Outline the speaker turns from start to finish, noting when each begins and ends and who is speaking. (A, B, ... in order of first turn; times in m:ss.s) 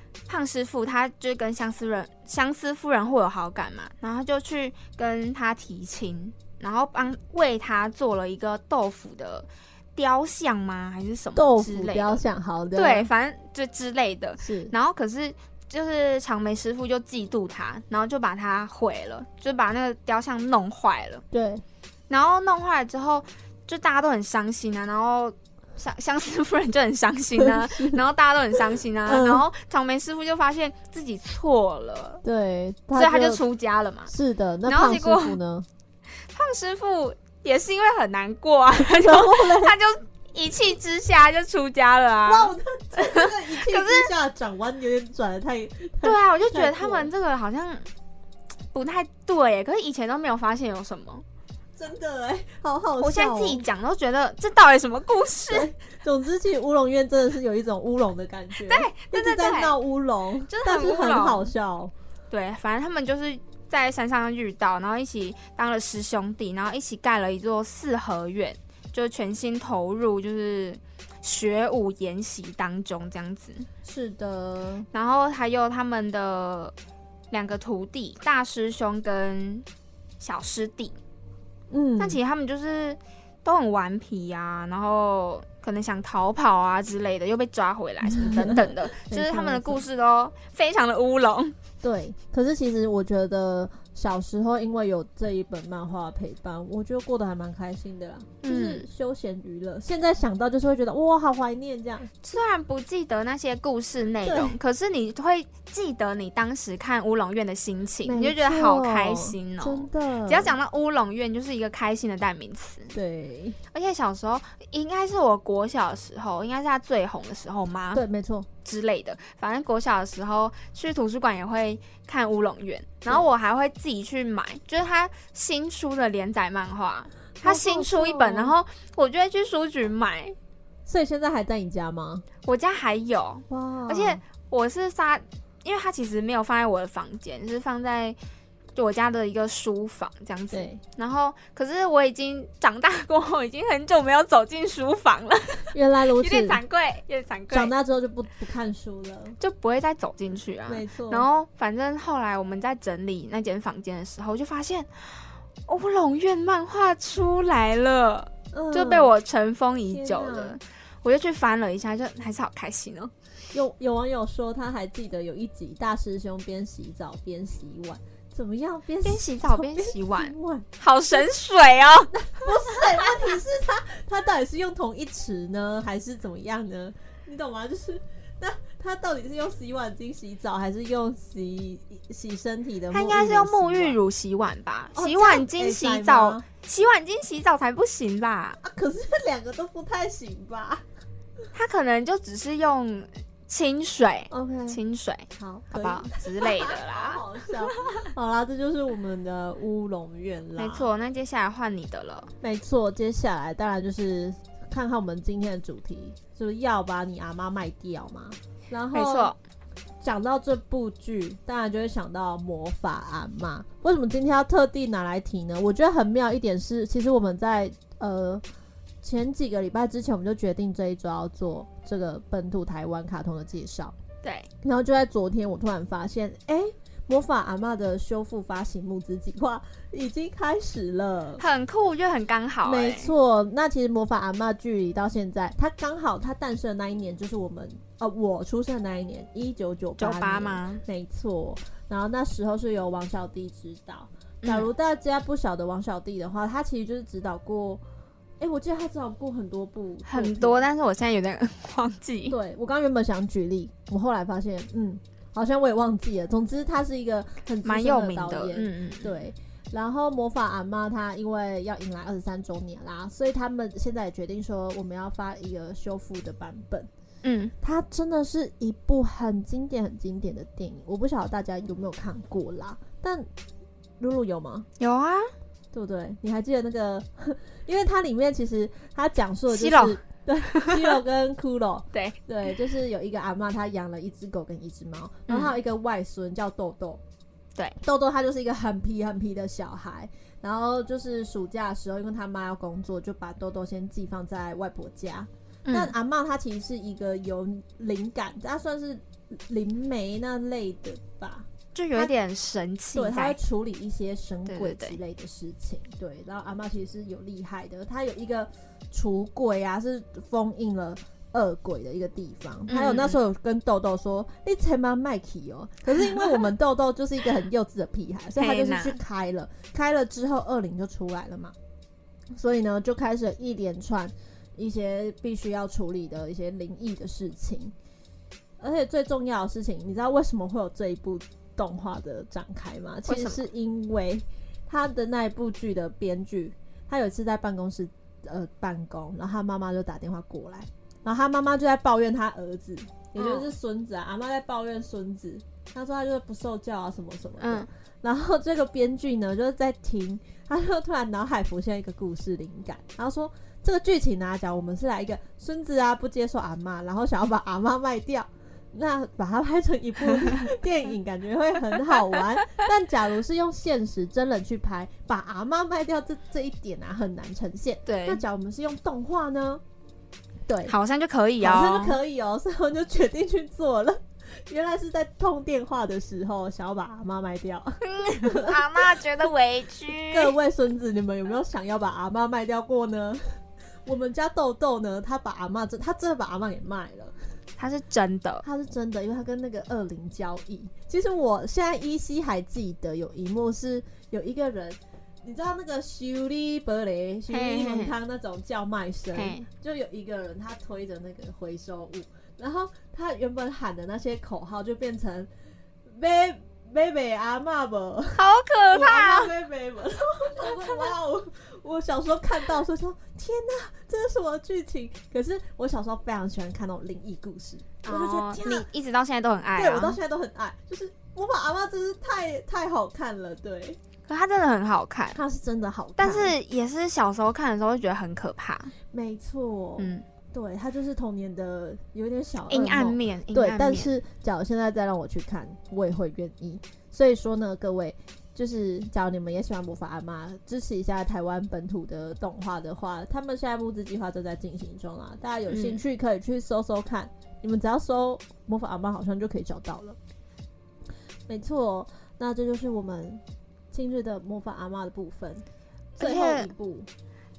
0:00.3-0:12.2 A
0:11.3-0:13.1 B
0:12.7-0:21.2 A
0:14.4-0:14.7 B
0:21.3-0:21.6 B
0:22.1-0:32.2 A
0:27.4-0:28.0 B
0:29.1-0:29.4 B
0:32.2-0:33.4 B
0:32.9-0:34.1 A
0:34.1-0:35.7 B
0:34.7-0:35.4 A
0:36.3-0:44.1 A
0:38.8-0:39.7 B
0:42.2-0:47.1 B
0:46.0-0:47.8 A
0:48.7-0:51.2 A
0:51.8-0:53.6 B
0:53.0-0:55.7 A
0:55.5-1:01.9 B
0:58.6-0:59.7 A
1:00.5-1:01.5 A
1:02.3-1:13.6 A
1:13.8-1:14.8 B
1:14.9-1:16.7 A
1:17.3-1:19.6 A
1:20.2-1:21.0 A
1:21.7-1:22.2 B
1:22.0-1:31.5 A
1:28.1-1:29.8 B
1:31.8-1:42.1 B
1:38.4-1:38.8 A
1:42.2-1:52.9 A
1:44.2-1:44.6 B
1:48.0-1:50.5 B
1:52.9-1:53.6 B
1:53.7-1:58.0 A
1:57.9-1:58.5 B
1:58.6-2:10.4 A
2:07.4-2:08.5 B
2:10.8-2:12.2 B
2:12.4-2:18.2 A
2:13.5-2:14.2 B
2:18.8-2:27.7 A
2:20.5-2:20.8 B
2:25.7-2:26.6 B
2:27.5-2:29.4 B
2:29.4-2:34.9 A
2:30.7-2:31.3 B
2:35.7-2:43.1 A
2:38.5-2:39.1 B
2:39.9-2:40.6 B
2:43.5-2:51.3 B
2:49.0-2:52.8 A
2:52.1-3:04.0 B
3:02.9-3:08.6 A
3:04.9-3:06.4 B
3:08.6-3:10.8 B
3:11.5-3:17.2 A
3:14.3-3:14.8 B
3:15.3-3:20.9 B
3:20.6-3:22.3 A
3:22.4-3:29.3 B
3:28.9-3:29.4 A
3:30.0-3:38.4 B
3:39.0-3:43.9 B
3:44.2-3:44.5 A
3:44.6-3:51.4 B
3:51.4-3:53.1 A
3:52.6-4:07.8 B
4:00.0-4:00.8 A
4:04.4-4:04.7 A
4:08.4-4:10.6 B
4:10.1-4:12.4 A
4:12.3-4:26.9 B
4:17.6-4:19.1 A
4:27.2-4:27.5 A
4:27.6-4:33.3 B
4:34.0-4:34.7 B
4:34.8-4:35.3 A
4:35.7-4:47.0 B
4:39.5-4:41.0 A
4:45.3-4:45.6 A
4:47.8-5:02.1 B
4:55.6-4:55.9 A
5:01.7-5:03.4 A
5:02.9-5:21.5 B
5:04.5-5:05.0 A
5:12.7-5:13.2 A
5:18.4-5:19.0 A
5:22.3-5:27.7 B
5:28.6-6:09.6 B
5:33.1-5:33.4 A
5:43.2-5:43.5 A
5:47.4-5:47.7 A
6:00.1-6:00.4 A
6:07.8-6:08.2 A
6:10.4-6:10.7 B
6:10.7-6:12.0 A
6:11.4-6:18.8 B
6:17.8-6:20.3 A
6:20.1-6:27.1 B
6:27.6-6:28.4 A
6:28.4-6:45.3 B
6:37.3-6:37.9 A
6:39.1-6:39.4 A
6:45.8-6:58.7 B
6:48.2-6:49.3 A
6:50.4-6:50.9 A
6:57.8-7:00.0 A
6:59.6-7:03.8 B
7:04.1-7:05.2 A
7:05.1-7:06.4 B
7:06.0-7:08.7 A
7:08.9-7:30.0 B
7:09.8-7:10.0 A
7:12.5-7:13.9 A
7:25.5-7:25.8 A
7:31.3-7:35.4 B
7:36.0-7:36.5 A
7:36.0-7:36.9 B